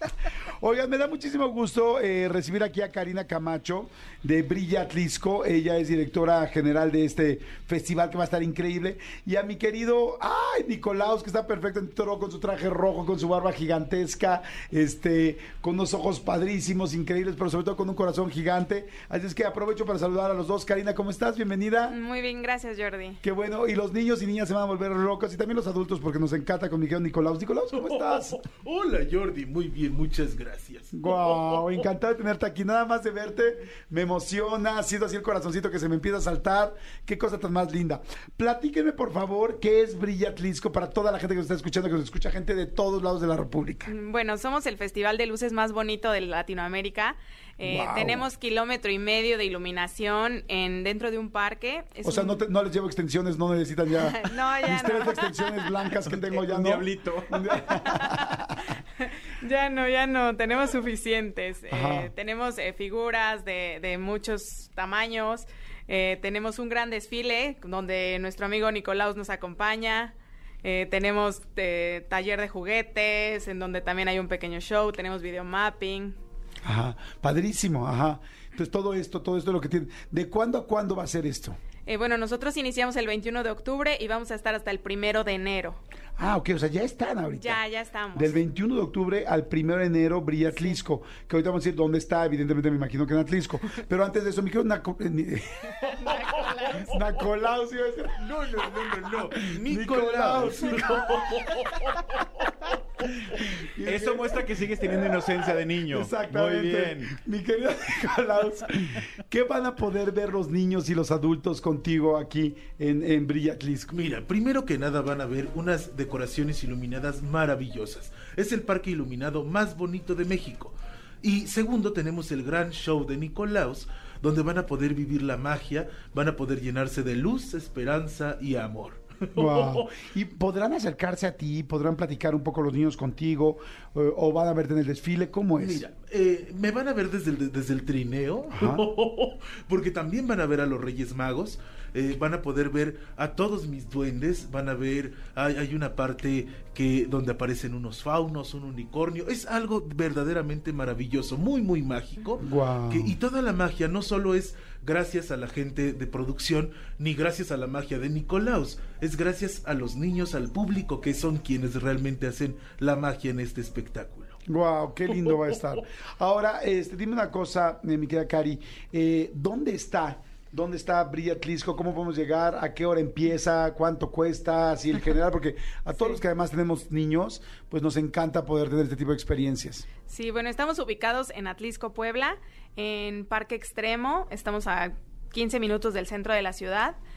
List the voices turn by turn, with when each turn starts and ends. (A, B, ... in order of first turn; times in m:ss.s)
0:00.6-0:22.0 A
0:21.9-0:23.2 B
0:23.2-0:28.4 A
0:27.8-0:31.4 C
0:30.9-0:43.9 A
0:43.9-0:52.4 B
0:47.6-0:48.2 A
0:52.0-0:58.5 A
0:54.0-0:55.8 B
0:56.0-0:58.0 D
0:59.0-1:16.2 B
1:01.7-1:02.1 A
1:16.6-1:21.6 A
1:21.9-1:25.8 B
1:26.2-1:27.6 A
1:27.3-1:28.4 B
1:28.1-1:36.1 A
1:36.2-1:36.7 B
1:36.8-1:38.3 A
1:38.2-1:42.5 C
1:38.9-1:41.2 A
1:43.3-1:45.1 A
1:43.8-1:47.1 D
1:45.9-1:53.9 A
1:53.9-2:09.9 C
2:09.3-2:15.8 A
2:15.6-2:44.4 C
2:18.5-2:18.8 A
2:32.4-2:33.2 A
2:44.5-2:59.8 A
3:00.1-3:07.0 B